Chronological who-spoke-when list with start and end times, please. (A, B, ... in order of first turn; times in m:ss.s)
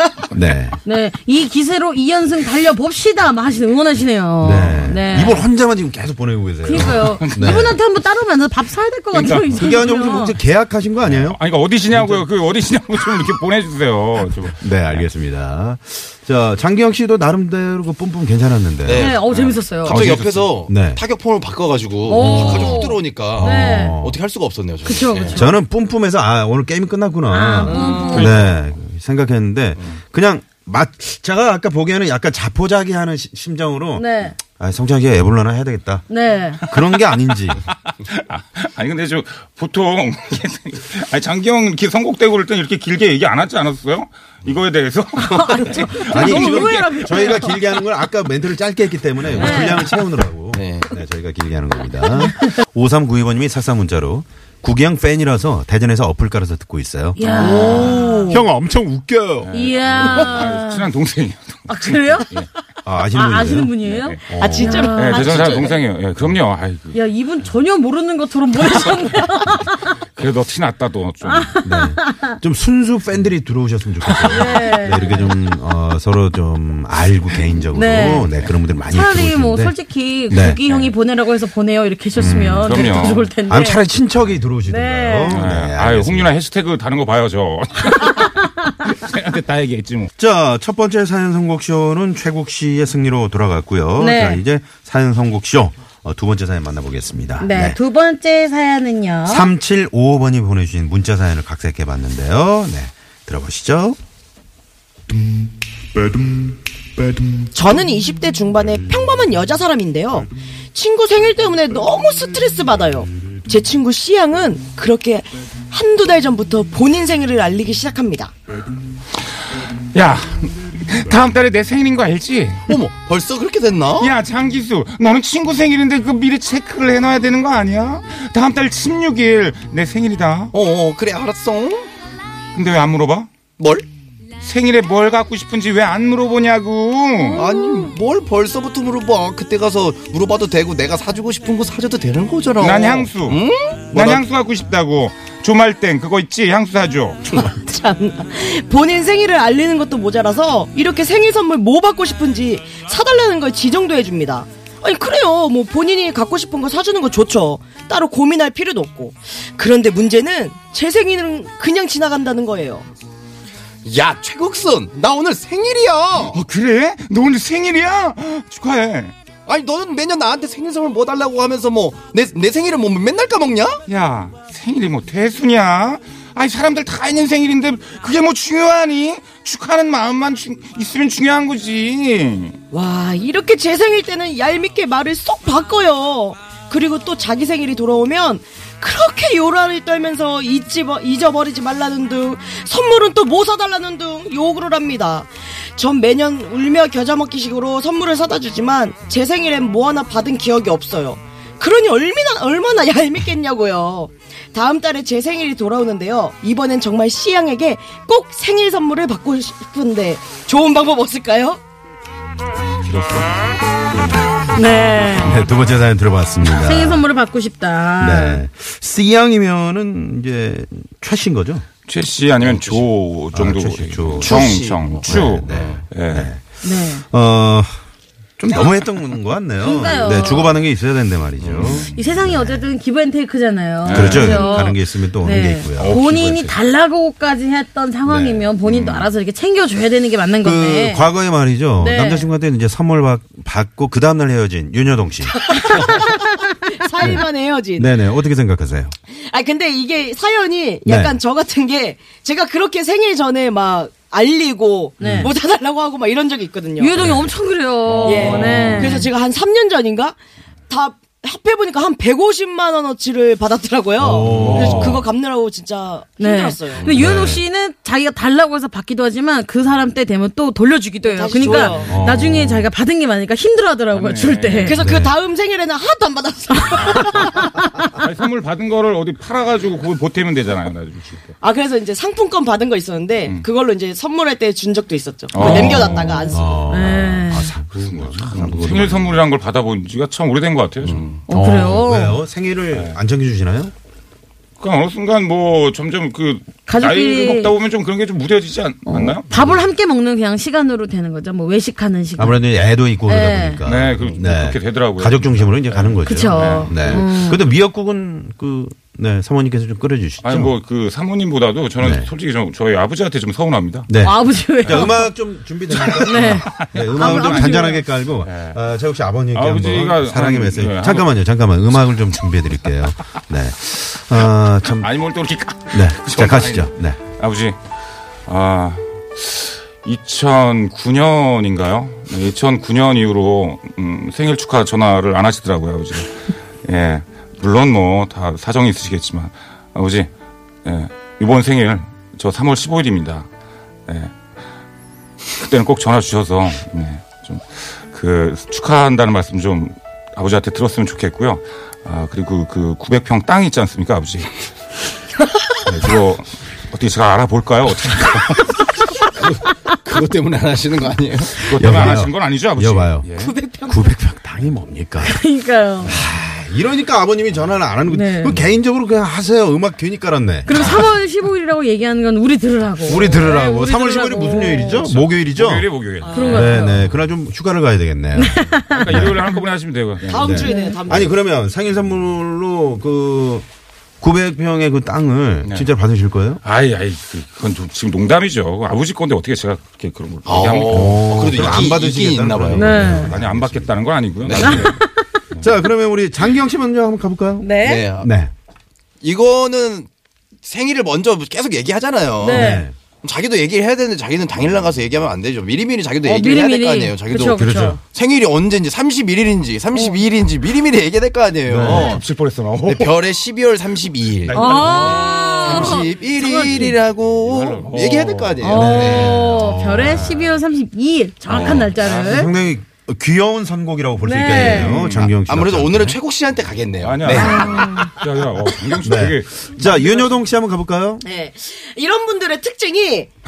0:00.3-0:00.8 A
0:00.9-0:05.4 B
0:04.4-0:07.8 A
0:06.6-0:10.4 B
0:06.8-0:07.8 C
0:09.1-0:09.9 C
0:09.5-0:11.4 A
0:11.0-0:15.0 C
0:14.6-0:19.2 A
0:18.8-0:25.4 D
0:19.0-0:20.0 B
0:19.8-0:20.5 C
0:20.7-0:21.0 A
0:22.1-0:24.0 B
0:22.1-0:24.2 A
0:24.8-0:25.6 B
0:25.3-0:36.0 A
0:27.3-0:28.4 B
0:27.7-0:28.4 D
0:28.1-0:28.5 C
0:34.0-0:34.4 B
0:36.1-0:36.6 B
0:36.6-0:37.6 A
0:36.7-0:37.1 C
0:37.7-0:47.4 C
0:45.3-0:47.6 B
0:46.1-0:59.5 A
0:49.4-0:49.9 B
0:50.5-0:50.9 D
0:52.2-0:52.6 B
0:57.2-0:58.4 B
0:57.4-0:58.4 E
0:59.4-1:02.5 C
0:59.5-1:00.8 B
1:01.7-1:02.3 B
1:02.8-1:03.7 A
1:03.1-1:05.8 B
1:03.8-1:04.2 C
1:04.3-1:04.8 A
1:04.4-1:05.8 E
1:04.9-1:07.0 C
1:06.9-1:09.8 B
1:10.2-1:11.6 C
1:11.2-1:12.4 B
1:11.6-1:19.8 A
1:14.2-1:15.3 B
1:17.7-1:18.3 B
1:18.1-1:18.6 C
1:18.9-1:23.8 B
1:20.3-1:20.6 A
1:20.7-1:20.9 C
1:22.2-1:26.3 A
1:22.6-1:23.3 C
1:24.7-1:25.4 B
1:25.3-1:30.1 C
1:30.2-1:37.8 A
1:34.0-1:34.4 B
1:37.4-1:39.5 B
1:39.3-1:44.0 A
1:47.5-1:58.3 E
1:59.9-2:02.7 C
2:02.7-2:04.1 D
2:04.0-2:10.5 C
2:10.5-2:11.9 D
2:12.5-2:13.3 C
2:13.6-2:13.9 D
2:14.4-2:17.4 C
2:17.4-2:24.2 D
2:22.6-2:23.4 C
2:23.9-2:27.4 C
2:27.4-2:42.9 E
2:43.8-2:46.4 D
2:46.3-2:49.1 C
2:49.5-2:53.8 D
2:53.9-3:02.6 C
3:02.7-3:31.6 E
3:32.8-3:33.3 A
3:33.9-3:34.2 A
3:34.5-3:35.4 B
3:35.1-3:37.0 A
3:36.5-3:38.4 B
3:38.0-3:41.7 A
3:41.9-3:46.3 C
3:42.4-3:42.8 D
3:43.3-3:47.7 A
3:44.2-3:45.8 D
3:46.6-3:47.0 B
3:48.4-3:52.6 A
3:49.6-3:50.6 B
3:51.4-3:52.2 C
3:51.9-4:01.1 B
3:53.8-3:54.6 C
3:53.9-3:56.5 A
3:55.8-3:56.5 C
3:58.1-3:58.5 A
3:58.7-3:59.1 C
4:00.4-4:05.9 A
4:01.8-4:02.3 B
4:05.4-4:07.9 E
4:05.5-4:06.5 B
4:07.0-4:07.2 A
4:07.8-4:08.9 A
4:09.1-4:17.0 E
4:10.9-4:11.2 A
4:15.0-4:15.3 B
4:15.0-4:15.3 A
4:16.8-4:19.1 B
4:17.0-4:17.3 A
4:17.9-4:18.7 C
4:18.0-4:19.0 A
4:18.0-4:20.2 E
4:20.7-4:26.9 E
4:24.0-4:25.0 A
4:24.3-4:25.0 C
4:26.2-4:34.8 B
4:26.8-4:27.1 D
4:27.0-4:27.4 A
4:31.0-4:32.0 E
4:31.8-4:32.7 A
4:33.9-4:34.8 C
4:34.6-4:37.5 E
4:34.8-4:35.1 A
4:36.6-4:37.4 B
4:36.8-4:37.2 C
4:38.0-4:41.4 C
4:41.4-4:46.5 E
4:45.3-4:46.3 C
4:45.4-4:45.8 B
4:45.5-4:45.8 A
4:46.3-4:49.2 A
4:46.7-4:47.5 B
4:47.8-4:51.2 C
4:51.3-4:52.2 B
4:51.3-4:53.7 A
4:54.6-4:59.3 C
4:56.7-4:57.5 B
4:58.9-5:02.4 B
5:02.2-5:10.5 A
5:03.1-5:03.6 B
5:03.6-5:07.1 C
5:06.1-5:07.4 B
5:10.2-5:13.9 C
5:11.8-5:12.1 A
5:13.9-5:24.9 A
5:14.0-5:15.1 B
5:14.7-5:14.9 C
5:15.7-5:17.6 C
5:16.0-5:17.8 B
5:18.2-5:18.6 C
5:19.3-5:21.1 C
5:24.8-5:27.6 C
5:25.7-5:27.0 A
5:28.3-5:40.1 C
5:40.6-5:43.3 C
5:43.9-5:44.1 C
5:45.4-5:54.5 C
5:55.7-5:58.7 C
5:59.1-6:01.4 D
6:01.4-6:03.3 C
6:01.6-6:03.1 A
6:03.1-6:03.9 E
6:03.7-6:05.2 A
6:05.0-6:06.0 B
6:05.8-6:10.9 A
6:07.9-6:08.4 B
6:10.5-6:14.9 B
6:12.9-6:19.2 A
6:14.8-6:16.5 C
6:16.0-6:16.6 E
6:16.1-6:16.8 B
6:18.2-6:19.2 B
6:18.7-6:20.4 C
6:20.1-6:21.2 E
6:20.2-6:23.5 A
6:20.3-6:20.8 B
6:24.0-6:26.4 A
6:25.4-6:25.7 C
6:26.4-6:31.8 C
6:30.3-6:32.8 D
6:30.7-6:33.7 A
6:32.5-6:33.1 B
6:32.8-6:34.8 C
6:34.2-6:34.8 D
6:34.3-6:34.7 A
6:34.5-6:35.0 B
6:35.4-6:38.3 A
6:37.4-6:37.8 B
6:37.6-6:38.1 D
6:39.0-6:39.9 D
6:40.4-6:52.0 D
6:42.2-6:42.6 B
6:42.2-6:42.8 A
6:46.0-6:47.8 B
6:47.3-6:47.8 A
6:51.5-6:52.0 A
6:51.7-6:53.0 C
6:52.7-6:59.2 D
6:54.2-6:55.9 C
6:54.3-6:56.8 B
6:57.2-6:58.7 C
6:58.4-7:02.3 B
6:58.5-7:00.4 A
6:59.9-7:00.2 C
7:01.3-7:02.3 C
7:01.3-7:06.0 A
7:04.0-7:04.8 B
7:04.3-7:05.2 C
7:05.3-7:07.9 D
7:06.8-7:10.2 C
7:07.1-7:07.9 B
7:08.8-7:11.0 A
7:11.0-7:13.1 E